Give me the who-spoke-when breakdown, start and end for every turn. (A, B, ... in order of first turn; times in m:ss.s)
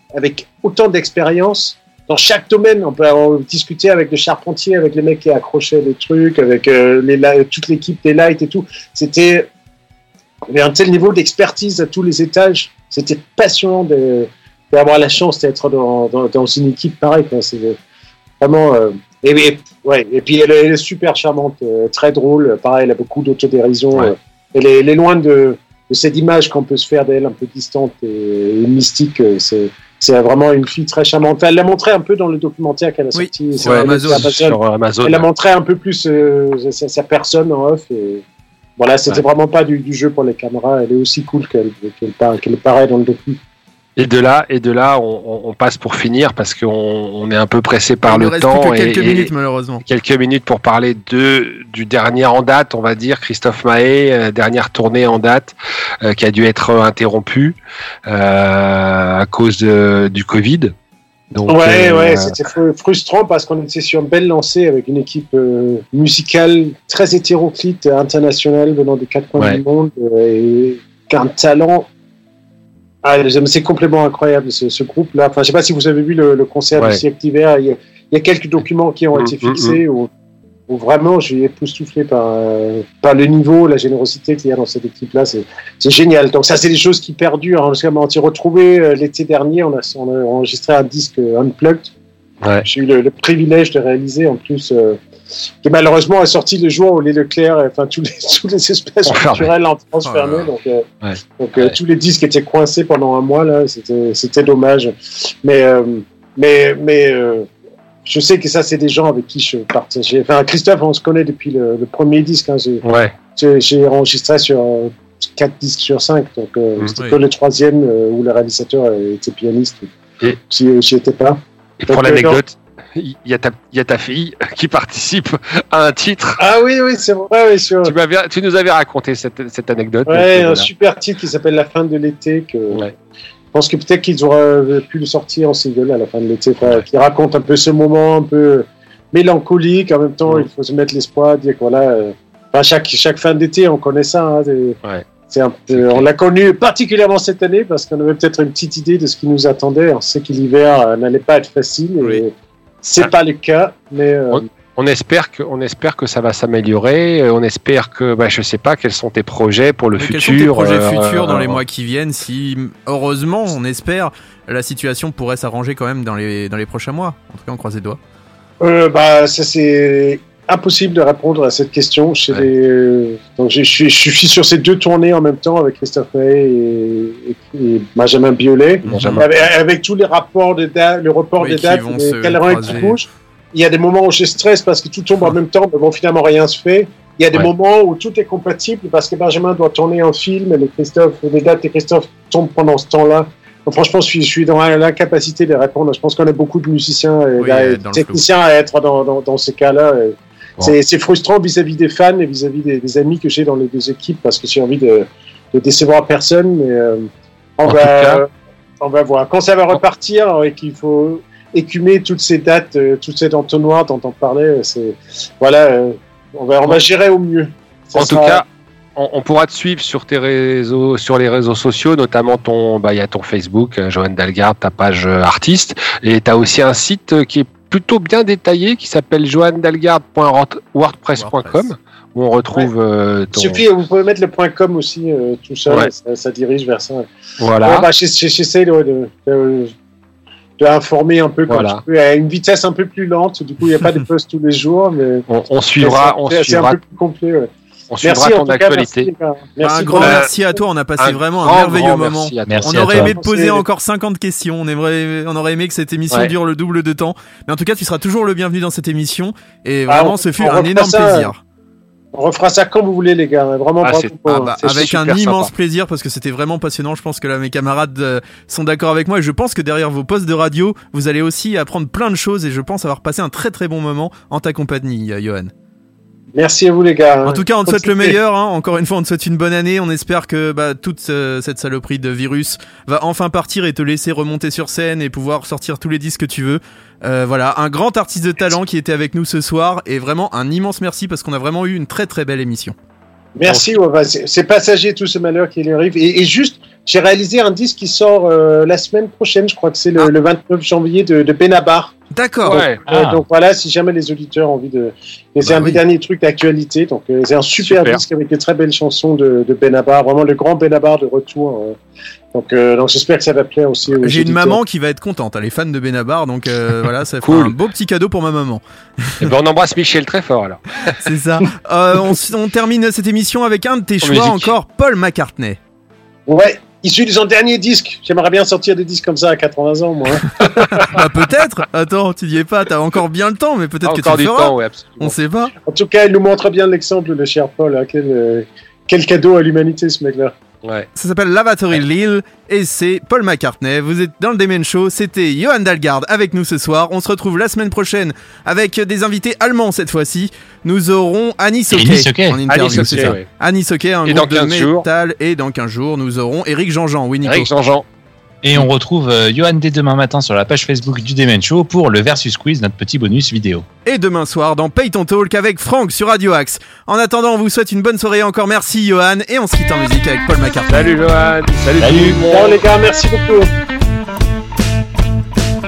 0:00.2-0:09.5 A
0:10.5-0:17.8 A
0:18.4-0:38.2 A
0:33.2-0:34.4 B
0:33.6-0:35.3 C
0:38.8-0:43.4 A
0:44.0-0:49.3 C
0:48.1-0:49.8 B
0:49.8-1:00.7 C
1:01.3-1:02.4 C
1:01.5-1:11.9 A
1:13.0-1:20.1 A
1:19.2-1:19.8 C
1:20.7-1:31.9 A
1:32.6-1:35.0 A
1:35.6-1:40.9 A
1:39.0-1:39.5 C
1:40.1-1:40.4 B
1:41.0-1:41.8 C
1:41.4-1:47.5 A
1:48.1-2:02.4 A
1:52.8-1:53.2 C
2:01.8-2:06.4 C
2:06.4-2:07.9 A
2:07.8-2:10.7 C
2:10.1-2:12.8 A
2:13.5-2:32.3 A
2:25.7-2:26.0 C
2:32.8-2:34.5 A
2:34.3-2:41.6 C
2:40.0-2:48.0 B
2:48.6-3:28.3 A
2:58.9-2:59.3 C
2:58.9-2:59.2 B
3:01.4-3:03.0 B
3:17.4-3:18.2 B
3:27.7-3:28.2 C
3:28.8-3:38.4 A
3:38.0-3:38.4 C
3:39.0-3:53.6 C
3:51.2-3:51.7 B
3:53.3-3:57.1 A
3:57.4-3:57.9 C
3:57.6-3:59.7 A
4:00.6-4:05.3 A
4:01.5-4:01.8 C
4:05.3-4:06.8 C
4:05.8-4:07.5 A
4:07.9-4:09.1 C
4:08.0-4:10.3 A
4:09.6-4:21.4 B
4:10.0-4:10.3 C
4:11.0-4:13.2 C
4:12.5-4:13.1 D
4:13.0-4:13.6 A
4:19.9-4:21.3 A
4:22.1-4:24.6 A
4:23.8-4:25.5 C
4:24.3-4:35.5 B
4:36.4-4:38.2 A
4:37.3-4:52.8 B
4:53.4-5:01.9 A
4:53.5-4:53.7 C
5:02.1-5:02.6 B
5:02.5-5:11.8 A
5:02.5-5:02.8 C
5:02.9-5:03.2 D
5:05.5-5:05.8 B
5:07.6-5:08.0 C
5:12.3-5:14.6 A
5:14.0-5:19.3 B
5:17.2-5:17.6 C
5:19.2-5:20.6 C
5:21.0-5:25.6 B
5:24.0-5:24.5 C
5:26.3-5:30.9 A
5:30.8-5:35.5 B
5:33.8-5:35.2 C
5:35.7-5:40.3 A
5:40.6-5:40.9 C
5:41.0-5:57.5 B
5:51.7-5:53.2 D
5:52.5-5:53.3 C
5:54.0-5:54.9 C
5:57.2-5:57.8 C
5:58.4-6:03.7 D
6:03.8-6:11.0 B
6:10.7-6:12.6 C
6:11.8-6:12.2 D
6:12.2-6:13.5 A